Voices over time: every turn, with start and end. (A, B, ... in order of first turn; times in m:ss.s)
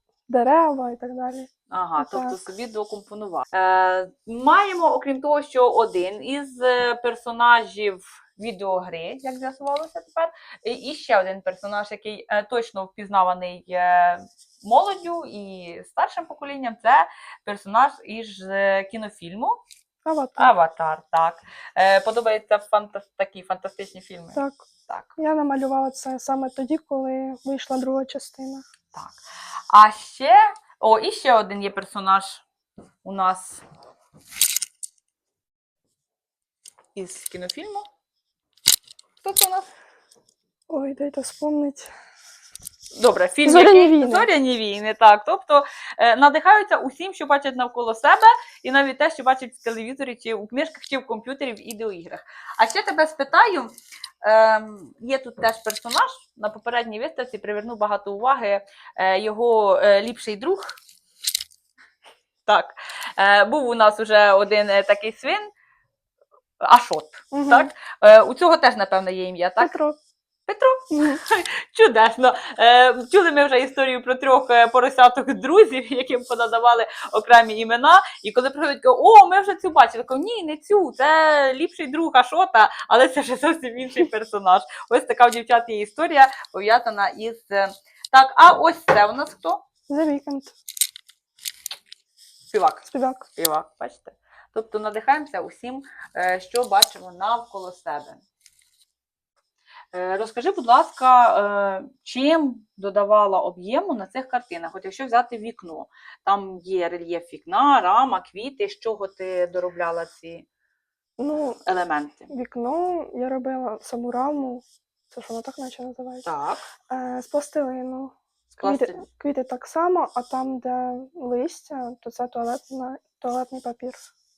0:00.3-0:02.4 A
0:01.7-0:19.6 B
0:20.0-0:20.5 A
0:20.4-0:25.2 B
0:24.3-0:24.6 A
0:25.2-0:28.6 A
0:28.9-0:32.4 B
0:33.0-0:33.6 B
0:36.9-0:37.9 B
0:39.2-0:39.7 B
0:40.7-0:41.9 A
0:42.9-1:00.8 B
0:43.4-0:44.3 A
1:02.4-1:05.5 B
1:06.6-1:09.7 B
1:07.3-1:07.7 A
1:09.6-1:10.0 A
1:10.5-1:29.6 B
1:10.9-1:11.2 A
1:29.9-1:30.5 A
1:32.5-1:38.2 B
1:32.9-1:33.3 A
1:39.9-1:50.4 B
1:51.2-1:51.6 A
1:51.3-1:52.3 B
1:52.3-1:56.2 A
1:56.2-1:56.7 B
1:56.9-2:04.0 A
1:58.6-1:59.0 B